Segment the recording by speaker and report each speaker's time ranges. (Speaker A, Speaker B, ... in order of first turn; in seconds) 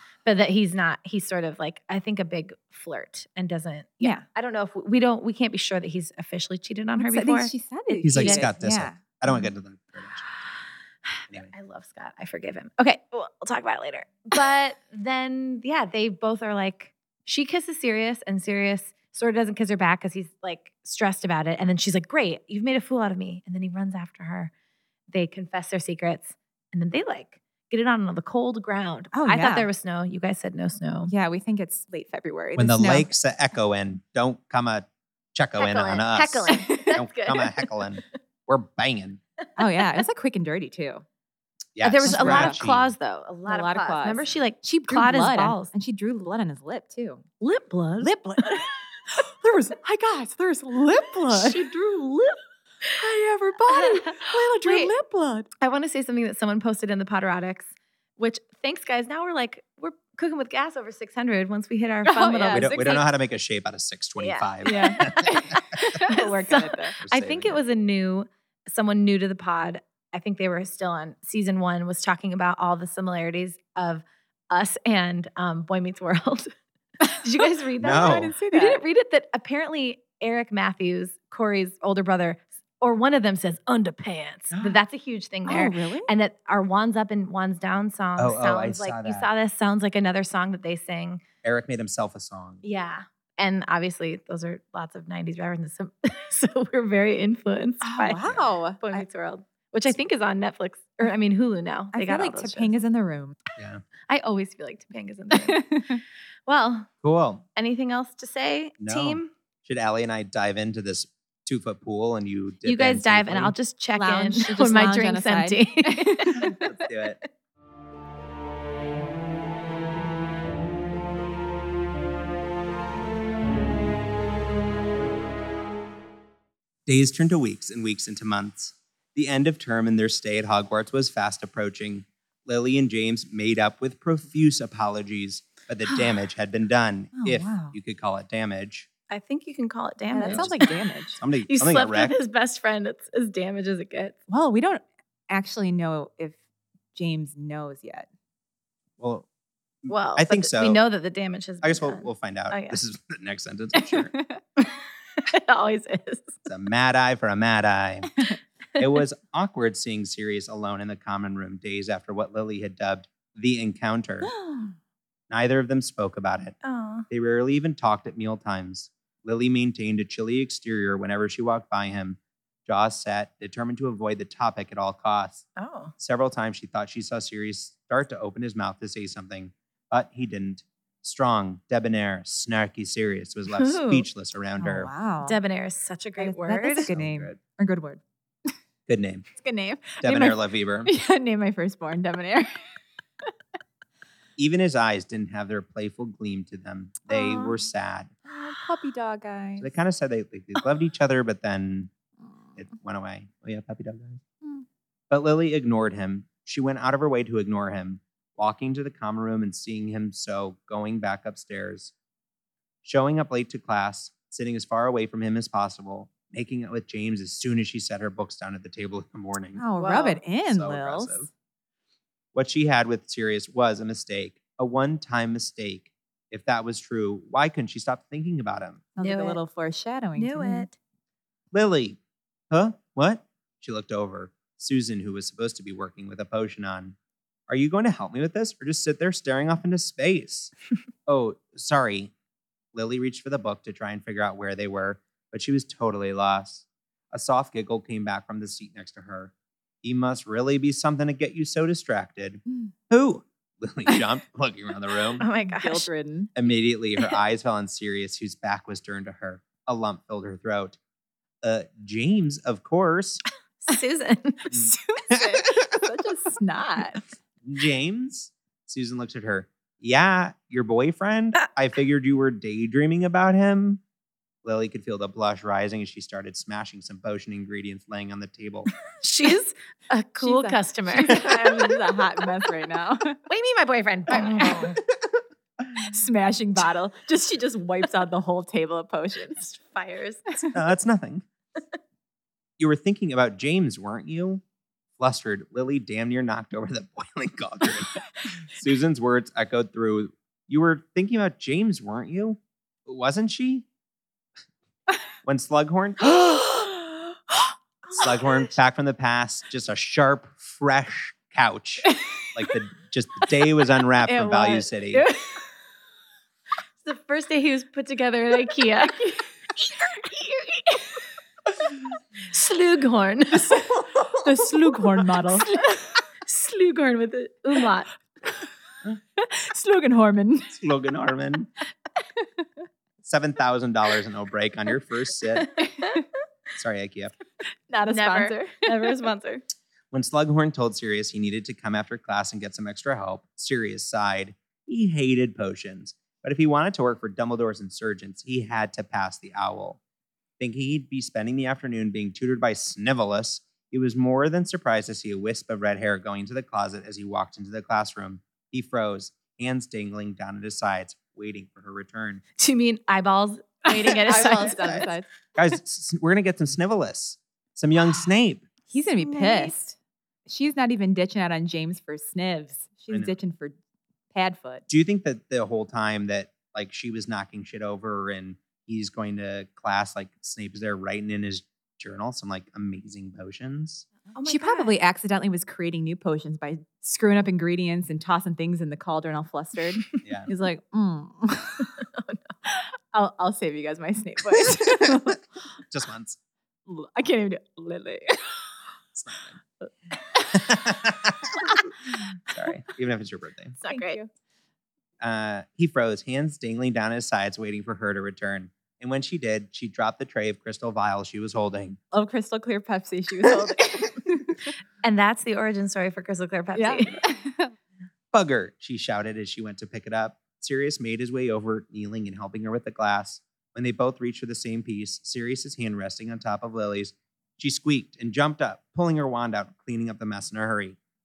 Speaker A: 0.2-8.5, 11.2-24.5, 25.1-31.1, 35.6-37.7, 41.8-45.7, 47.4-48.6, 51.3-52.4, 53.7-54.9, 55.6-62.8, 64.2-91.2, 92.6-102.7, 104.1-105.7, 106.5-106.9, 107.6-109.3, 112.7-116.5, 139.1-140.7, 141.5-144.2, 149.9-152.8, 154.6-156.3, 166.6-167.1, 175.6-175.9, 183.5-184.1, 185.2-186.9, 197.1-197.6, 219.8-220.2, 229.0-229.4, 230.2-230.8, 255.2-255.9, 263.6-264.6, 279.0-281.8, 283.3-284.8, 289.5-290.5, 307.9-308.5, 316.8-320.9, 322.2-323.7, 325.4-327.9, 335.6-335.9, 337.9-339.4, 362.4-364.9, 369.0-369.6, 384.1-384.7, 403.6-404.0, 414.8-417.0
Speaker B: 7.0-9.0, 29.1-29.7, 31.1-33.1, 36.5-37.0, 39.6-41.0, 42.0-42.6, 43.5-47.2, 48.0-51.8, 53.0-55.5, 62.0-63.1, 64.7-67.0, 77.8-78.8, 85.5-86.1, 97.8-99.0, 101.9-103.4, 105.3-106.0, 114.0-116.6, 137.1-137.8, 140.1-141.2, 144.3-146.4, 146.9-148.1, 154.1-154.4, 164.4-164.7, 184.6-185.4, 186.2-188.5, 189.4-192.8, 198.3-199.7, 219.6-221.3, 229.0-230.7, 255.4-256.3, 264.5-267.1, 280.2-283.2, 284.1-284.8, 285.7-289.5, 314.0-315.4, 323.7-325.6, 329.2-330.5, 337.7-339.0, 364.1-365.1, 368.7-369.8, 370.3-373.6, 374.1-374.6, 384.2-391.8, 392.5-395.2, 396.7-398.5, 400.1-400.5, 403.7-404.1, 411.9-414.5, 416.6-417.5
Speaker C: 8.0-10.3, 32.6-39.2, 41.8-42.9, 62.5-65.8, 67.0-67.6, 77.8-78.3, 84.5-84.8, 88.2-89.3, 91.4-92.6, 103.6-103.8, 107.0-107.4, 108.8-113.5, 116.5-117.2, 126.9-138.9, 140.3-142.1, 149.0-149.3, 149.8-150.8, 151.6-154.1, 156.5-158.1, 158.8-164.3, 165.3-166.6, 167.1-175.5, 176.0-184.9, 186.9-187.4, 188.9-189.3, 190.0-190.9, 194.4-198.1, 199.6-201.9, 202.6-204.2, 205.1-211.9, 212.8-219.6, 220.4-221.3, 222.3-228.8, 231.5-232.0, 232.5-237.0, 237.5-240.5, 241.1-242.1, 242.7-255.2, 256.4-260.8, 261.4-263.2, 264.5-265.7, 267.4-273.8, 274.4-278.7, 281.1-281.4, 290.5-291.3, 292.6-294.4, 295.0-303.7, 305.2-306.2, 308.0-315.1, 330.5-331.5, 333.0-335.6, 336.6-337.1, 339.9-349.8, 350.4-362.2, 364.1-368.5, 374.7-383.9, 390.0-390.3, 395.7-396.2, 398.9-399.3, 400.3-401.7, 402.3-403.6, 405.0-411.8, 418.1-430.8